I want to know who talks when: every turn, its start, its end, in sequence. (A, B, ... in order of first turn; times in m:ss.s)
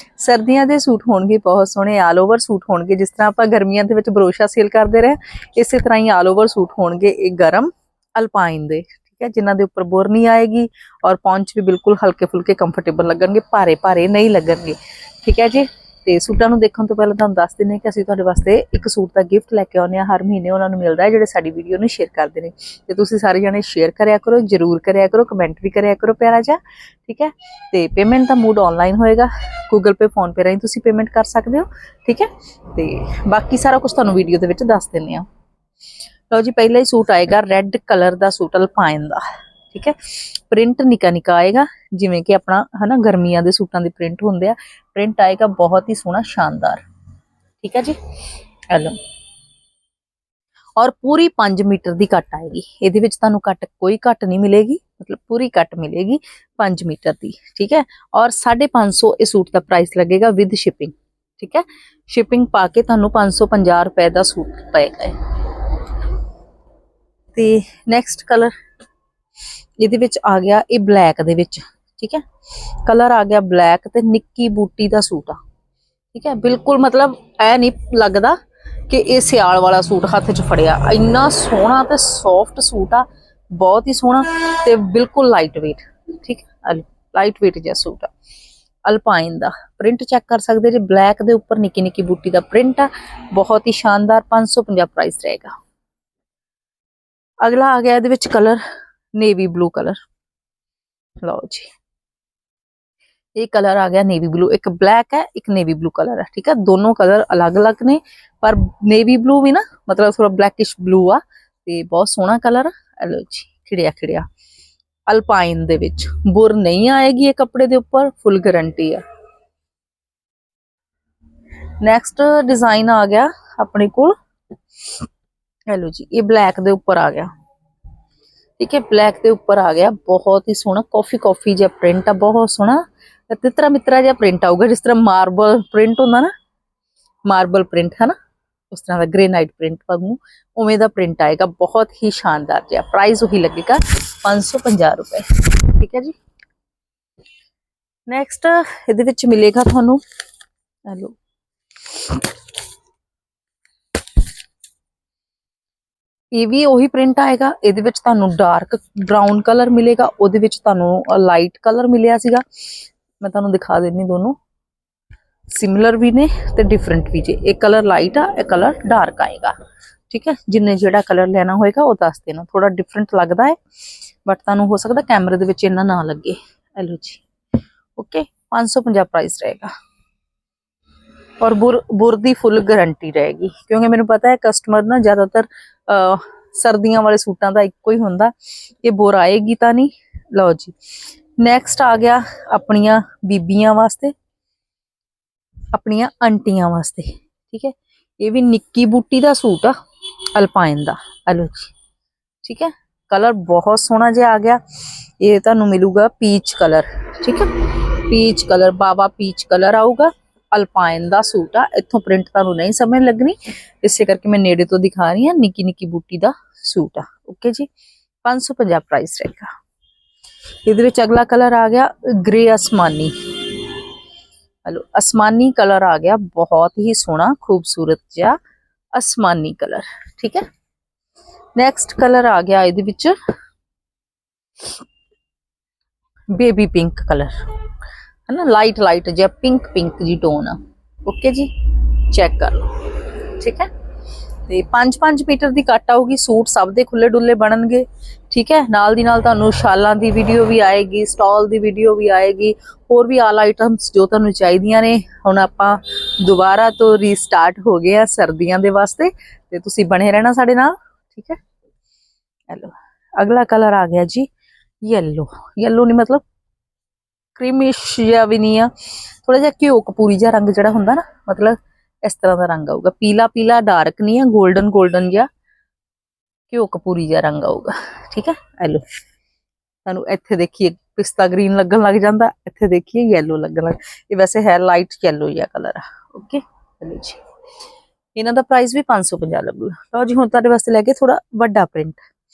0:00.2-0:35.3 A
0:36.3-0:46.8 A
0:47.6-0:48.0 A
0:48.7-0:49.0 A
0:50.8-1:05.8 A
1:07.3-1:08.5 A
1:09.8-1:12.2 A
1:12.8-1:15.4 A
1:16.1-1:28.1 A
1:28.9-1:35.5 A
1:37.4-1:38.6 A
1:39.2-1:40.0 A
1:41.2-1:41.7 A
1:43.4-1:54.2 A
1:55.1-1:59.0 A
2:01.8-2:04.2 A
2:05.7-2:07.3 A
2:08.6-2:16.3 A
2:17.3-2:18.2 A
2:18.7-2:26.2 A
2:28.1-2:30.0 A
2:30.9-2:31.2 A
2:36.4-2:42.4 A
2:43.2-2:44.4 A
2:45.5-2:49.6 A
2:50.1-2:53.6 A
2:54.2-2:57.2 A
2:58.0-2:59.7 A
3:01.4-3:10.7 A
3:11.4-3:14.1 A
3:15.7-3:19.8 A
3:20.4-3:21.7 A
3:22.4-3:24.6 A
3:25.2-3:37.7 A
3:38.2-3:39.5 A
3:40.7-3:43.8 A
3:44.6-3:48.4 A
3:49.0-3:50.4 A
3:51.6-3:53.2 A
3:56.3-3:57.4 A
3:58.3-4:02.7 A
4:03.4-4:03.7 A
4:04.5-4:21.4 A
4:22.5-4:24.3 A
4:24.8-4:26.2 A
4:27.4-4:35.3 A
4:36.5-4:38.8 A
4:39.8-4:47.2 A
4:48.2-4:52.0 A